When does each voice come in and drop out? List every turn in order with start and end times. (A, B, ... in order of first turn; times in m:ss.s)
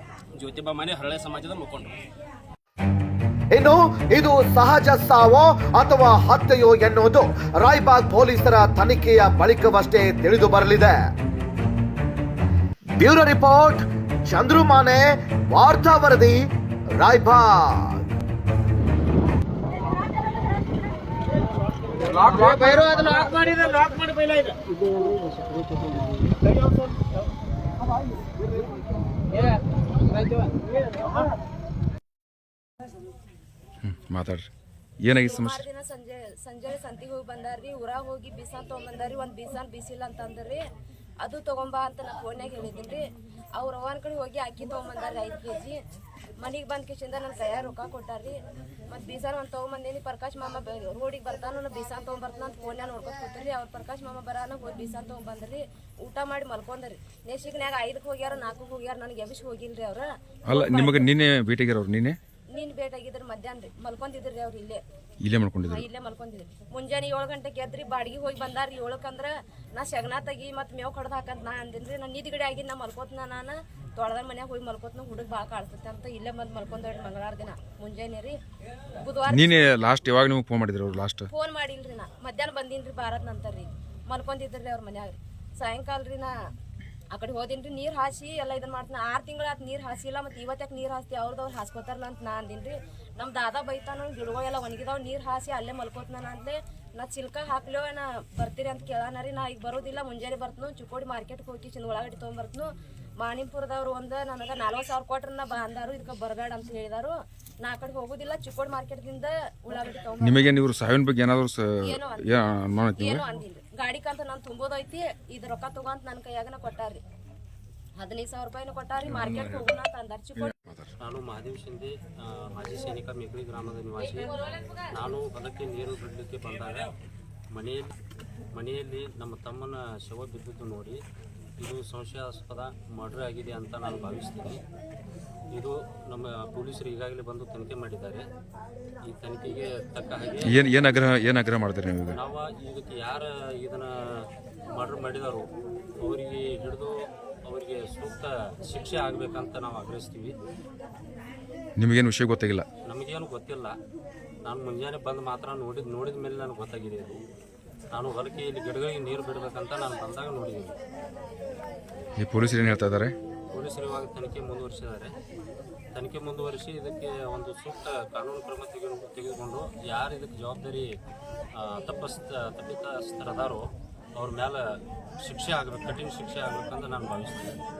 0:00.4-0:02.0 A
0:03.5-0:11.0 B
0:13.0-0:16.4 B
0:17.0-0:18.0 B
0:21.9-0:24.6 A
0:33.8-0:34.5 C
0:35.0-0:35.6 C
0:35.2-0:40.6 D
0:41.2-0:43.0 D
0:43.6-0:45.8 D
0:46.4-0:48.4 D
0:48.9-1:01.1 D
1:00.5-1:02.2 C
1:02.5-1:04.8 D
1:05.2-1:05.9 C
1:05.7-1:18.4 D
1:19.0-1:19.7 D
1:19.3-1:21.3 C
1:21.3-1:26.3 D
1:27.1-1:42.7 D
1:43.2-1:50.6 D
1:50.2-1:53.2 C
1:51.8-1:52.4 D
1:53.0-1:57.0 D
1:58.0-2:00.5 D
1:59.0-1:59.8 C
2:00.4-2:00.9 C
2:01.0-2:06.9 E
2:07.5-2:07.9 E
2:08.5-2:11.0 E
2:11.6-2:14.6 E
2:15.5-2:18.2 E
2:19.0-2:20.8 E
2:20.4-2:22.2 C
2:22.1-2:25.5 E
2:26.0-2:30.4 E
2:31.8-2:32.7 C
2:32.8-2:33.8 E
2:34.4-2:37.2 E
2:37.9-2:40.8 E
2:42.2-2:43.2 C
2:43.5-2:45.1 E
2:46.0-2:50.9 E
2:51.6-2:57.6 E